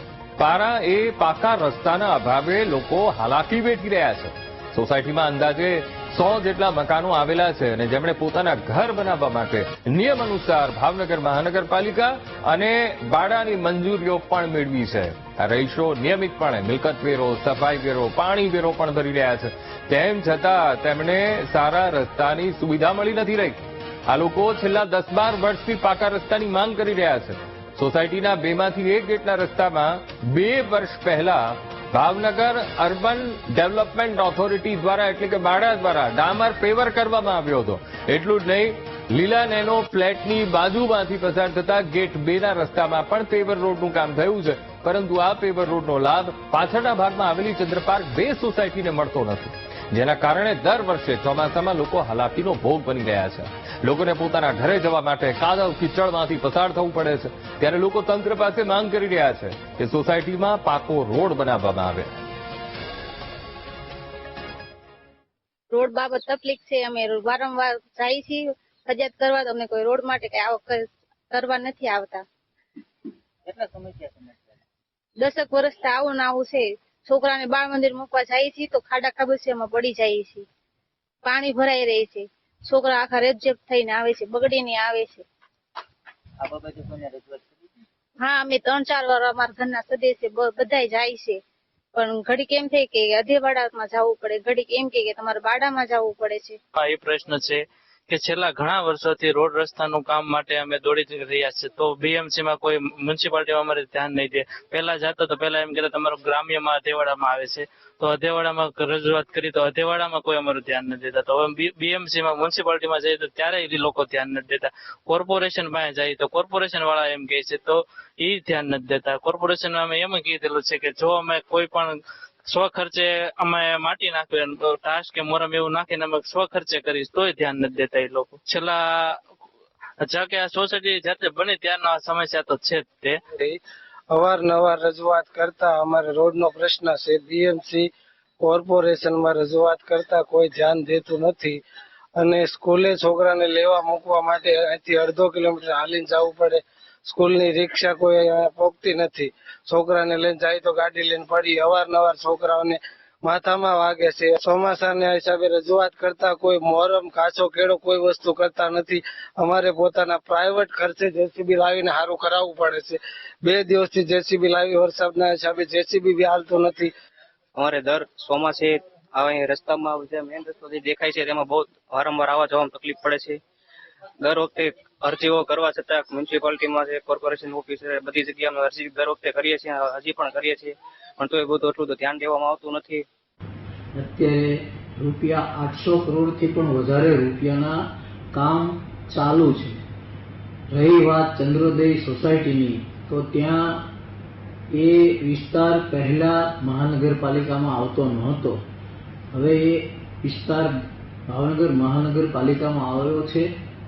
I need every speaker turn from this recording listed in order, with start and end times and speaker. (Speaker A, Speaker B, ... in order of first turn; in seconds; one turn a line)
Speaker A: 0.4-62.2
Speaker B: 65.7-72.2
Speaker C: 73.5-74.3
Speaker B: 75.2-80.5
Speaker B: 81.2-85.2
Speaker C: 86.4-87.5
Speaker B: 88.2-91.4
Speaker B: 92.0-96.6
Speaker D: 96.8-129.2
Speaker D: 130.0-133.2
Speaker E: 133.3-133.6
Speaker E: 134.1-137.9
Speaker E: 138.4-141.6
Speaker E: 142.2-166.9
Speaker F: 167.6-173.4
Speaker F: 174.2-183.1
Speaker G: 183.9-187.8
Speaker G: 188.3-189.8
Speaker G: 190.7-193.8
Speaker G: 194.7-198.6
Speaker G: 199.3-200.8
Speaker G: 201.3-203.5